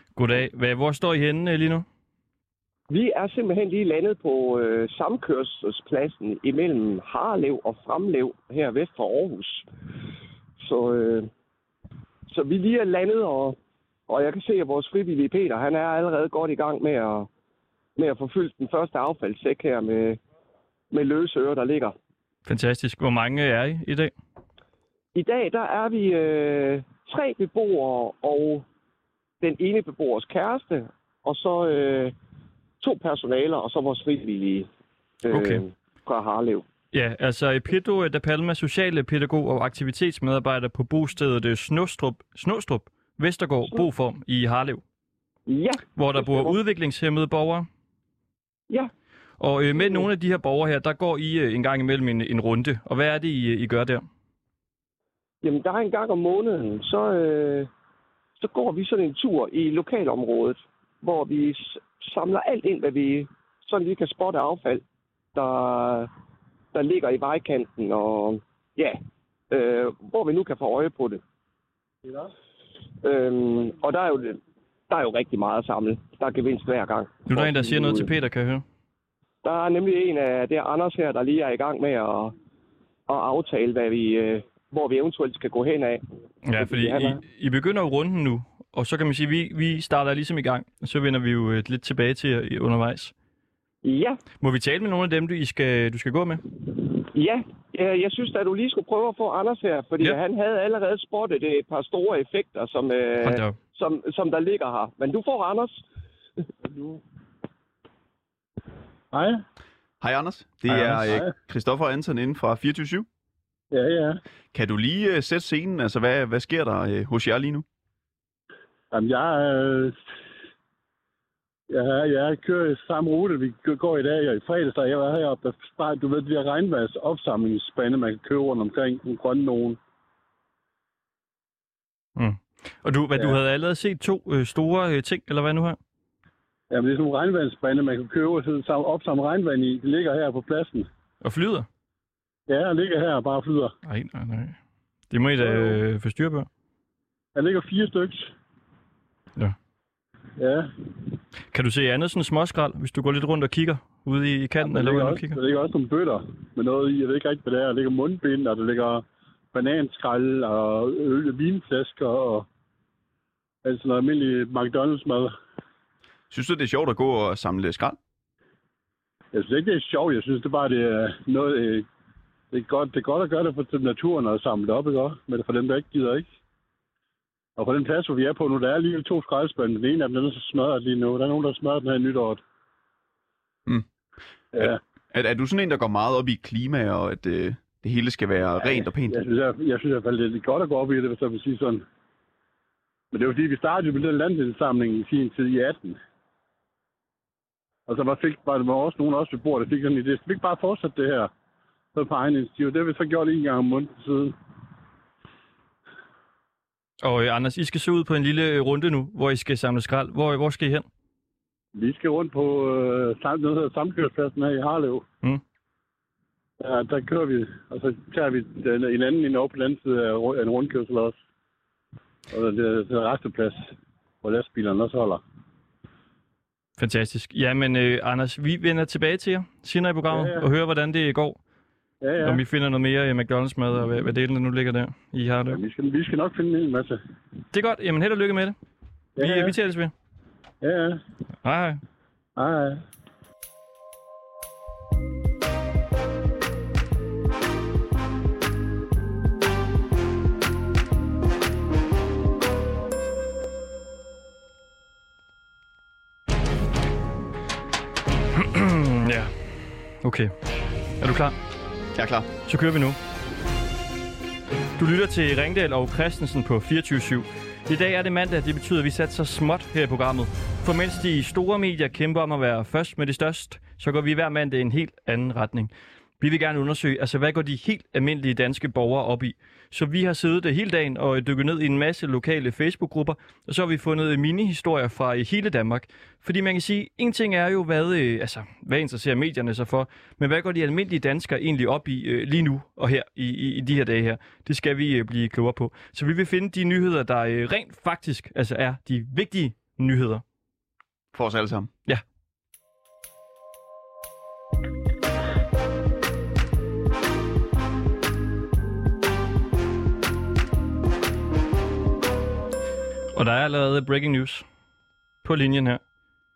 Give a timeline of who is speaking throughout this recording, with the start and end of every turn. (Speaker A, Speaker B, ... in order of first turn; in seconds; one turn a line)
Speaker A: 0.1-1.8
Speaker B: 2.9-9.7
Speaker B: 10.6-11.3
Speaker B: 12.3-13.6
Speaker B: 14.1-17.3
Speaker B: 18.0-20.2
Speaker B: 20.9-21.9
Speaker A: 22.4-24.1
Speaker B: 25.1-28.6
Speaker B: 29.4-32.1
Speaker B: 32.8-34.7
Speaker B: 35.2-36.6
Speaker A: 35.3-35.6
Speaker A: 36.9-44.8
Speaker B: 45.5-46.6
Speaker A: 46.0-47.7
Speaker A: 49.4-54.0
Speaker B: 49.7-50.1
Speaker B: 55.4-57.7
Speaker B: 58.4-64.8
Speaker B: 65.3-66.1
Speaker B: 66.7-71.2
Speaker B: 73.0-78.1
Speaker A: 77.3-78.6
Speaker B: 79.4-82.3
Speaker B: 83.1-86.0
Speaker A: 86.4-93.1
Speaker B: 86.6-87.2
Speaker B: 93.8-94.2
Speaker A: 94.4-96.4
Speaker B: 97.1-105.8
Speaker A: 103.2-103.5
Speaker C: 106.6-107.0
Speaker C: 109.1-109.4
Speaker D: 110.0-113.1
Speaker A: 110.7-111.1
Speaker C: 113.7-114.2
Speaker D: 114.5-117.6
Speaker C: 118.9-120.0
Speaker C: 121.7-129.8
Speaker A: 132.2-135.8
Speaker C: 136.7-140.9
Speaker A: 141.2-141.7
Speaker C: 142.5-143.7
Speaker A: 143.8-144.6
Speaker A: 145.1-146.5
Speaker C: 145.4-145.8
Speaker C: 147.3-148.3
Speaker C: 150.4-150.7
Speaker A: 151.5-155.4
Speaker C: 154.6-162.4
Speaker C: 163.6-165.3
Speaker D: 166.3-168.0
Speaker C: 169.3-171.8
Speaker C: 172.5-176.3
Speaker C: 177.6-182.4
Speaker C: 184.5-184.8
Speaker D: 184.5-189.2
Speaker C: 188.7-191.8
Speaker C: 193.1-196.0
Speaker C: 197.9-201.3
Speaker C: 201.9-204.3
Speaker A: 207.0-210.8
Speaker C: 211.7-215.0
Speaker C: 216.6-221.2
Speaker C: 222.3-223.7
Speaker C: 224.2-225.2
Speaker A: 226.8-231.4
Speaker C: 230.1-230.5
Speaker C: 232.0-232.4
Speaker A: 232.2-235.6
Speaker C: 235.5-237.0
Speaker A: 237.5-238.6
Speaker C: 239.2-239.5
Speaker A: 239.2-239.9
Speaker C: 240.6-241.0
Speaker A: 241.4-241.8
Speaker C: 242.4-242.8
Speaker A: 258.3-260.3
Speaker A: 261.0-261.4
Speaker D: 261.9-262.3
Speaker A: 262.4-263.0
Speaker A: 264.8-300.2
Speaker D: 301.1-301.7
Speaker A: 313.1-314.4
Speaker A: 315.2-315.8